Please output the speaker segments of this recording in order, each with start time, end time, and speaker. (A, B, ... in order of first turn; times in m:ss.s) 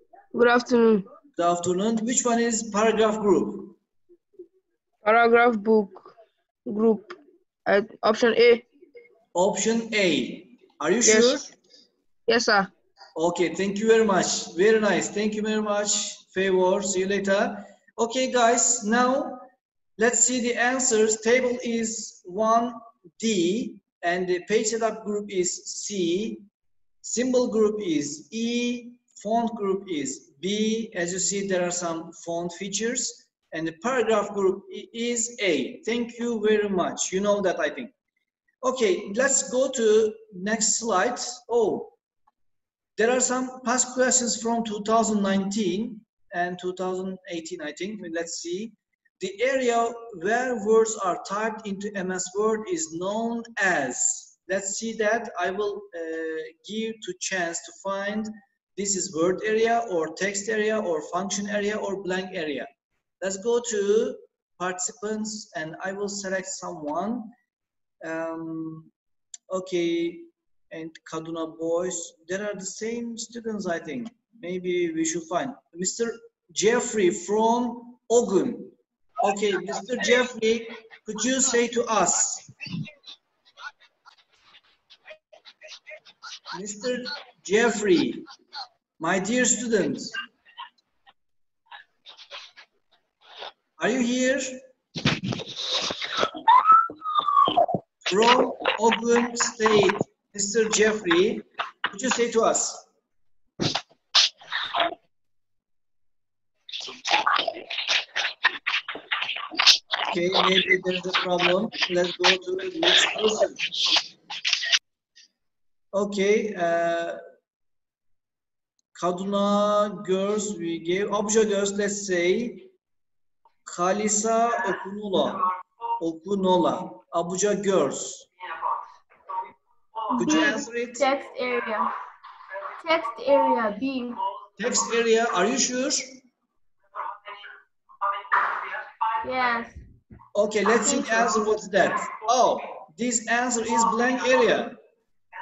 0:00.3-0:01.1 A
0:01.4-0:03.8 B
0:05.0-0:06.1 A
0:06.7-0:07.2 A
0:07.7-0:08.7 A
0:09.3-0:11.5 B
0:11.0-0:11.5 A
0:12.3-0:12.7 A
0:13.2-0:19.5 B
0:20.0-0:26.4 B
0:27.0-0:37.9 B
0:38.6-0:41.9 B
0:43.0-1:02.7 B
1:03.2-1:07.3 B
1:08.0-1:08.9 B
1:09.5-1:22.5 B
1:26.5-1:28.3 B
1:29.0-1:30.2 B
1:33.8-1:34.6 B
1:38.1-1:42.8 B
1:50.0-1:53.6 B
1:55.9-1:57.2 B
1:59.0-2:02.7 B
2:03.7-2:05.4 B
2:06.0-2:08.3 B
2:10.2-2:11.1 B
2:10.2-2:11.9 C
2:12.8-2:14.2 C
2:14.6-2:16.2 B
2:19.2-2:19.8 C
2:20.3-2:24.8 B
2:20.7-2:21.5 C